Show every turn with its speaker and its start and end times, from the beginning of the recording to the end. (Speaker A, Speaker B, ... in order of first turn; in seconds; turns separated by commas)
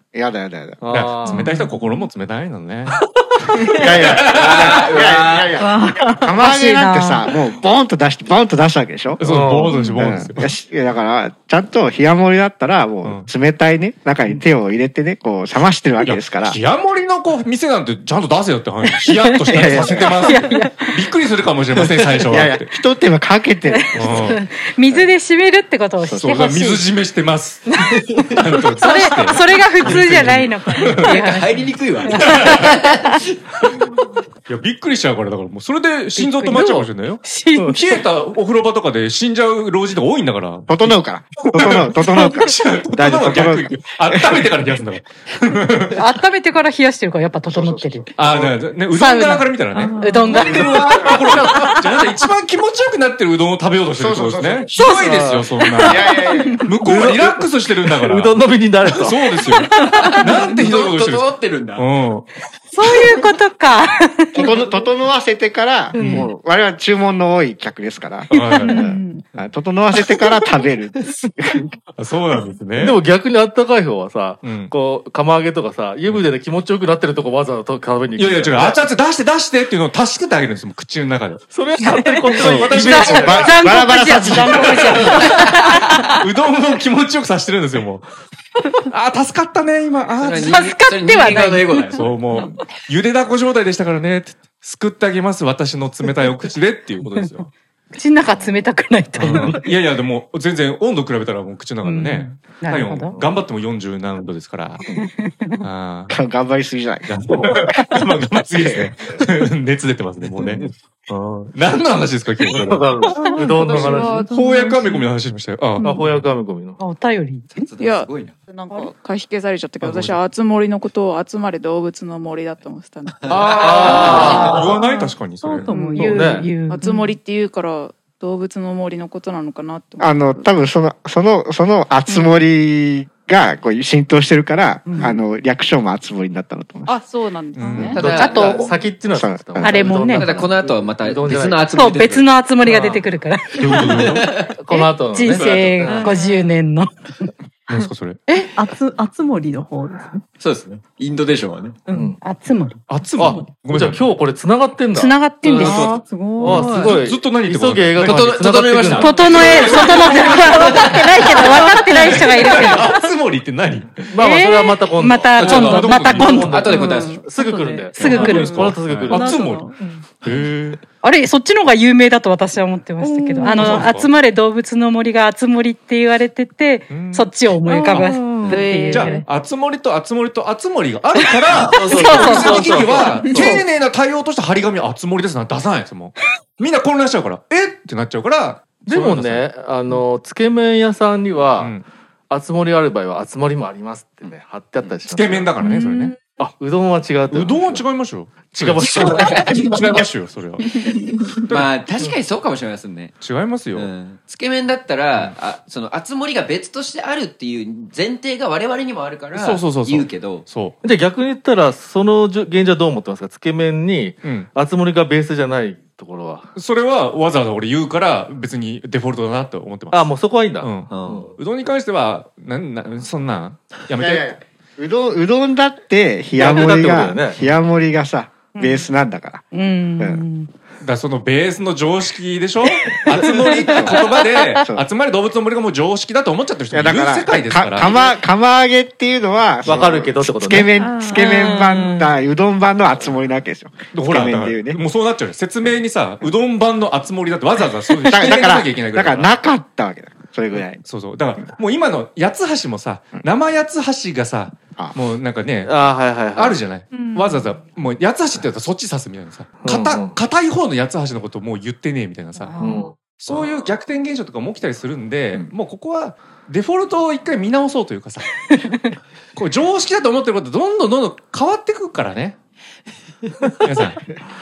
Speaker A: 0.1-0.8, Speaker B: 0.8-1.6, Speaker C: 0.9-2.9, Speaker B: 2.9-3.2, Speaker A: 3.8-16.6, Speaker D: 4.2-5.6, Speaker E: 5.6-6.3, Speaker F: 6.4-7.3, Speaker C: 9.2-10.5, Speaker B: 9.2-9.8, Speaker C: 16.0-22.7, Speaker F: 18.9-21.0, Speaker A: 19.5-20.3, Speaker A: 22.3-25.1, Speaker F: 23.7-26.9, Speaker C: 23.9-24.4, Speaker A: 26.1-26.3, Speaker C: 26.2-27.7, Speaker F: 27.8-28.0, Speaker C: 28.3-31.1, Speaker F: 28.8-32.8, Speaker D: 29.8-30.1, Speaker D: 31.0-33.6, Speaker C: 32.1-32.7, Speaker C: 34.5-46.0, Speaker F: 36.1-37.8, Speaker A: 40.7-44.6, Speaker F: 45.9-48.1, Speaker A: 47.5-48.6, Speaker C: 48.2-56.0, Speaker F: 48.9-51.1, Speaker E: 49.7-51.0, Speaker A: 50.4-51.2, Speaker A: 54.0-54.7, Speaker F: 54.7-55.1, Speaker B: 54.9-55.5, Speaker F: 55.6-56.4, Speaker A: 55.8-56.6, Speaker C: 56.6-62.2, Speaker B: 56.8-59.4, Speaker E: 59.6-60.5, Speaker D: 59.8-61.9, Speaker F: 62.7-64.5, Speaker A: 64.3-71.7, Speaker E: 65.9-66.3, Speaker B: 66.0-66.3, Speaker C: 68.3-68.9, Speaker E: 68.3-69.2, Speaker C: 72.0-73.0, Speaker B: 72.8-78.9, Speaker C: 74.4-74.7, Speaker C: 78.2-81.4, Speaker B: 81.5-83.5, Speaker A: 82.3-84.9, Speaker C: 82.4-83.6, Speaker F: 82.7-85.8, Speaker C: 84.5-88.1, Speaker C: 88.9-90.7, Speaker D: 90.2-92.1, Speaker F: 90.3-92.5, Speaker C: 91.9-97.5, Speaker F: 97.2-99.6, Speaker B: 98.2-98.7, Speaker C: 99.2-104.8, Speaker B: 99.2-99.6, Speaker F: 101.8-103.1, Speaker F: 105.0-105.6, Speaker C: 105.6-106.1, Speaker A: 106.1-107.9, Speaker C: 107.0-112.9, Speaker A: 108.4-109.2, Speaker B: 110.2-110.6, Speaker B: 112.4-114.2, Speaker E: 113.1-115.1, Speaker C: 113.6-116.2, Speaker G: 113.6-114.2, Speaker B: 115.8-116.8, Speaker F: 116.8-117.7, Speaker D: 117.5-118.3, Speaker G: 117.8-124.1, Speaker C: 119.8-120.2, Speaker C: 123.3-125.7, Speaker D: 123.3-124.6, Speaker B: 123.6-124.6, Speaker F: 124.1-124.7, Speaker E: 124.8-126.0, Speaker G: 125.7-130.5, Speaker F: 125.7-126.8, Speaker B: 126.0-126.6, Speaker E: 126.6-127.1, Speaker A: 130.0-136.9, Speaker F: 134.8-135.2, Speaker G: 136.9-138.1, Speaker C: 137.5-138.0, Speaker F: 137.6-138.7, Speaker A: 137.7-138.0, Speaker D: 137.9-138.7, Speaker B: 138.0-141.7, Speaker A: 139.1-139.9, Speaker F: 139.6-140.3, Speaker D: 139.8-142.3, Speaker F: 141.7-143.9, Speaker B: 142.6-143.1, Speaker C: 143.5-144.3, Speaker D: 143.7-144.4, Speaker B: 144.6-146.1, Speaker F: 144.7-146.9, Speaker D: 145.3-146.0, Speaker E: 145.8-146.5, Speaker C: 147.7-148.2, Speaker E: 148.4-150.2, Speaker D: 150.4-151.8, Speaker E: 151.9-152.1, Speaker B: 151.9-152.2, Speaker F: 152.2-152.8, Speaker C: 152.9-154.1, Speaker B: 153.2-155.8, Speaker F: 154.9-155.9, Speaker E: 155.6-157.0, Speaker B: 156.4-159.9, Speaker C: 156.5-158.3, Speaker D: 158.0-161.8, Speaker F: 158.9-162.9, Speaker C: 159.2-160.6, Speaker C: 161.8-164.2, Speaker B: 164.1-169.3, Speaker F: 164.2-166.7, Speaker D: 165.4-167.2, Speaker C: 165.6-166.4, Speaker E: 166.7-170.1, Speaker C: 168.0-169.7, Speaker F: 168.0-168.6, Speaker C: 170.2-170.8, Speaker D: 170.2-170.5, Speaker F: 171.0-179.2, Speaker E: 173.0-173.9, Speaker C: 173.5-174.1, Speaker C: 176.9-177.3, Speaker E: 177.6-179.0, Speaker C: 177.9-189.5, Speaker G: 178.4-179.2, Speaker B: 181.6-183.2, Speaker F: 181.8-183.7, Speaker G: 182.3-182.6, Speaker G: 183.2-183.5, Speaker B: 188.8-191.8, Speaker C: 191.6-191.8, Speaker B: 192.3-195.6, Speaker D: 194.2-195.0, Speaker C: 195.1-196.2, Speaker E: 195.6-196.1, Speaker B: 196.3-197.9, Speaker C: 197.3-200.6, Speaker B: 198.5-199.7, Speaker D: 198.8-200.1, Speaker D: 200.8-203.2, Speaker C: 201.5-201.8, Speaker C: 203.2-203.9, Speaker D: 203.7-210.4, Speaker C: 209.3-210.8, Speaker B: 210.8-216.5, Speaker C: 214.2-214.5, Speaker C: 216.5-224.4, Speaker B: 219.9-221.3, Speaker D: 220.9-221.3, Speaker A: 223.9-229.4, Speaker B: 226.3-227.4, Speaker F: 228.6-228.8, Speaker F: 229.5-230.5, Speaker A: 230.0-230.2, Speaker C: 230.8-238.0, Speaker B: 233.2-233.9, Speaker A: 233.5-234.0, Speaker A: 234.6-234.8, Speaker A: 236.7-244.8, Speaker B: 239.6-240.8, Speaker E: 240.7-241.6, Speaker F: 241.1-242.1, Speaker C: 243.9-249.4, Speaker A: 248.1-250.8, Speaker C: 250.8-268.3, Speaker B: 255.6-256.6, Speaker E: 256.9-257.6, Speaker B: 259.6-260.2, Speaker F: 262.4-262.8, Speaker B: 262.6-263.0, Speaker C: 269.4-272.4, Speaker C: 273.6-274.0